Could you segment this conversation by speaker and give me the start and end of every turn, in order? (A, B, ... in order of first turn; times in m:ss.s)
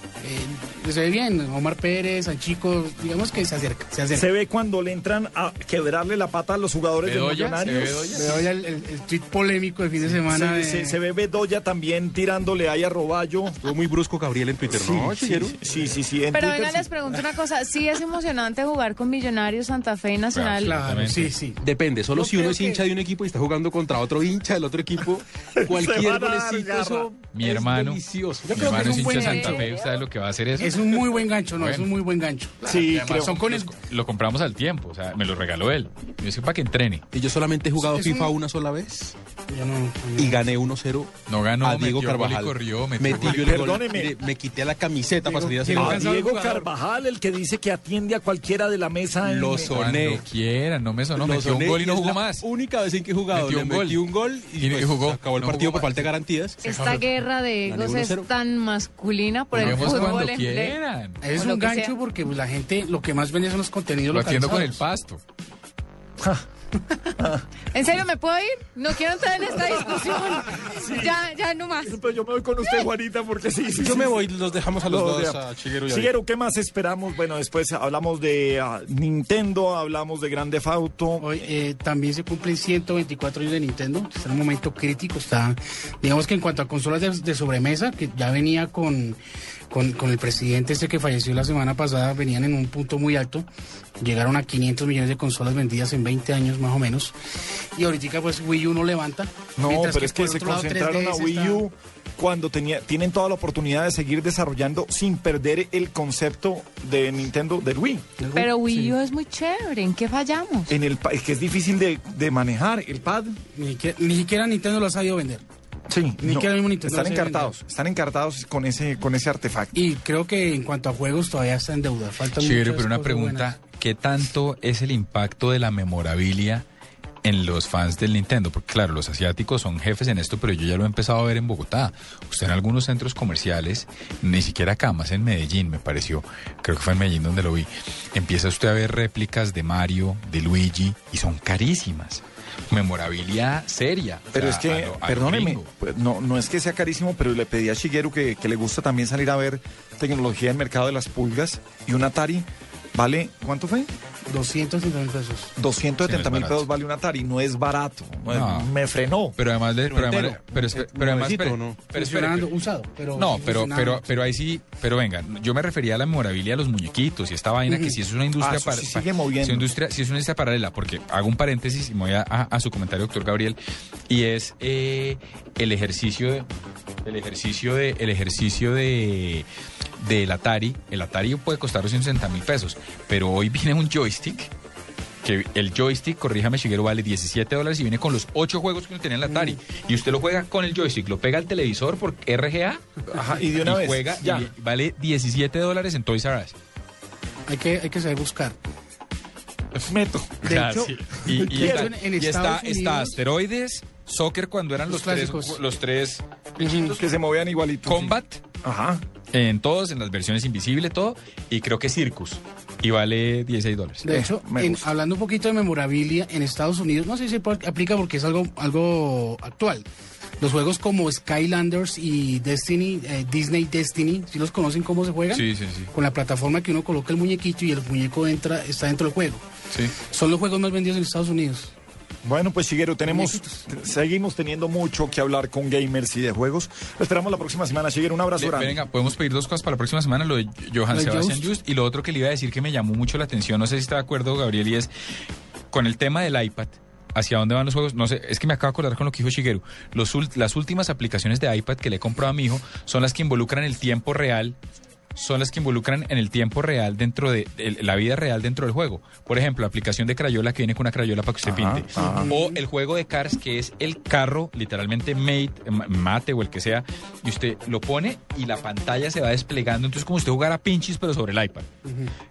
0:00.2-0:04.3 A
0:04.1-0:08.4 B
0:07.0-0:08.5 C
0:08.1-0:11.0 A
0:10.3-0:13.6 B
0:13.6-0:15.6 D
0:14.7-0:16.9 B
0:16.3-0:20.8 E
0:20.3-0:21.3 C
0:20.6-0:21.6 A
0:21.6-0:28.8 D
0:22.1-0:22.8 A
0:25.6-0:27.2 B
0:27.3-0:31.0 C
0:28.5-0:29.7 A
0:28.7-0:30.0 E
0:30.6-0:33.7 A
0:31.6-0:31.9 C
0:32.6-0:33.3 B
0:32.9-0:37.0 C
0:37.1-0:39.2 D
0:37.8-0:38.4 A
0:39.5-0:40.6 A
0:40.2-0:46.3 D
0:41.3-0:43.6 C
0:43.4-0:44.2 B
0:45.2-0:46.6 A
0:45.8-0:49.7 B
0:49.2-0:50.2 D
0:49.6-0:52.5 C
0:51.2-0:56.6 D
0:53.3-0:54.0 C
0:54.6-0:56.1 C
0:56.6-1:00.8 E
0:56.6-0:57.1 A
0:57.6-0:58.3 D
0:59.5-1:01.3 C
0:59.6-1:00.2 A
1:01.2-1:04.8 A
1:01.3-1:01.9 E
1:04.1-1:05.2 C
1:07.2-1:07.4 B
1:07.7-1:12.0 E
1:10.2-1:11.2 B
1:11.8-1:14.3 B
1:13.8-1:16.1 D
1:14.8-1:21.5 B
1:21.2-1:29.2 A
1:29.7-1:33.5 A
1:34.0-1:37.2 A
1:37.8-1:41.6 A
1:39.6-1:48.1 B
1:48.2-1:48.9 A
1:48.4-1:50.7 E
1:50.7-1:53.4 B
1:53.6-1:55.4 A
1:55.9-1:59.8 B
1:56.2-1:57.5 A
1:59.7-2:03.6 A
2:02.4-2:06.6 C
2:07.2-2:25.7 C
2:24.3-2:33.9 B
2:34.3-2:35.5 A
2:35.6-2:39.4 B
2:36.0-2:36.7 C
2:38.3-2:38.7 C
2:39.4-2:42.5 C
2:39.8-2:41.8 D
2:41.9-2:44.2 A
2:43.2-2:53.6 C
2:47.7-2:48.0 A
2:48.4-2:49.7 B
2:54.1-2:56.5 C
2:57.0-2:59.5 C
3:00.0-3:04.5 C
3:05.2-3:12.8 C
3:09.3-3:09.6 A
3:13.1-3:14.5 B
3:13.4-3:16.6 C
3:17.5-3:18.6 A
3:19.8-3:20.5 B
3:20.4-3:27.0 C
3:20.4-3:23.2 A
3:21.5-3:21.9 B
3:24.9-3:25.6 A
3:26.6-3:27.0 A
3:27.0-3:29.0 B
3:27.8-3:28.4 C
3:29.3-3:34.1 C
3:34.0-3:39.9 A
3:34.1-3:34.9 B
3:40.4-3:49.4 A
3:45.3-3:45.9 C
3:49.7-3:50.0 C
3:50.1-3:51.7 A
3:52.2-3:58.8 B
3:53.1-3:53.4 A
3:58.4-4:04.9 C
4:00.9-4:01.5 A
4:05.7-4:14.6 C
4:15.2-4:31.7 C
4:21.4-4:22.4 B
4:22.0-4:22.6 A
4:31.8-4:32.1 A